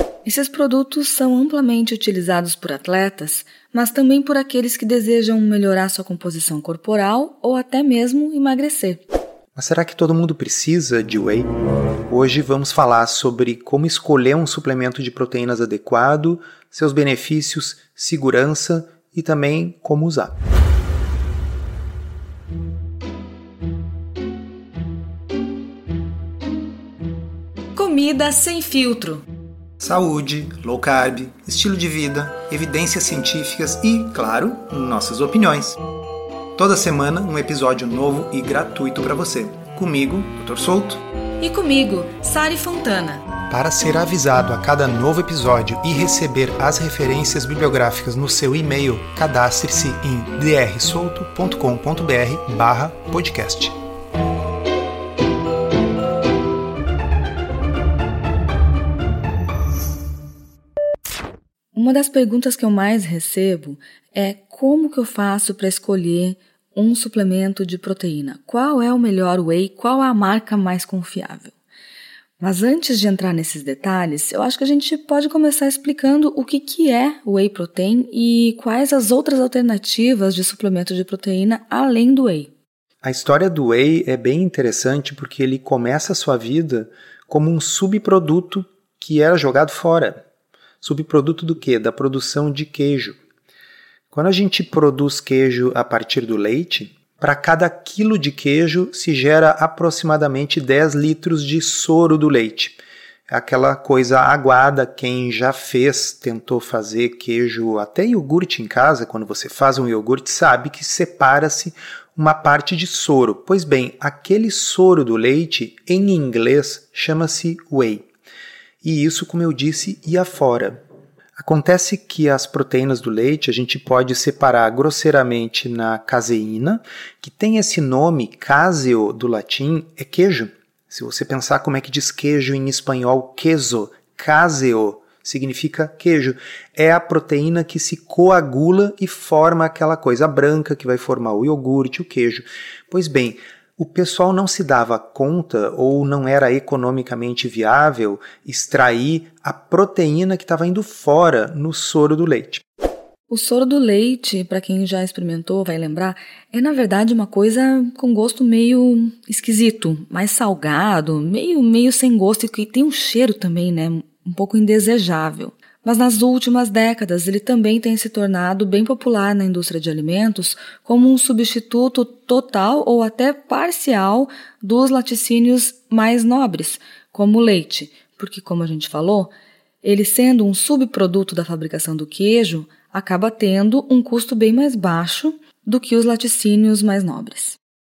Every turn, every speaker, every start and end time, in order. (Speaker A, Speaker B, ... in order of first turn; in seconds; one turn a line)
Speaker A: 0.2-9.0
Speaker B: 9.5-11.5
Speaker B: 12.1-20.3
Speaker A: 27.7-29.2
Speaker B: 29.8-35.8
Speaker B: 36.6-41.0
Speaker A: 41.4-43.2
Speaker B: 43.5-53.8
Speaker A: 61.7-71.5
Speaker A: 72.4-82.5
Speaker B: 83.0-90.2
Speaker B: 90.8-93.2
Speaker B: 94.1-102.8
Speaker B: 103.3-118.0
Speaker B: 118.8-120.8
Speaker B: 121.4-152.6
Speaker A: 153.3-179.3
Speaker A: 179.8-187.6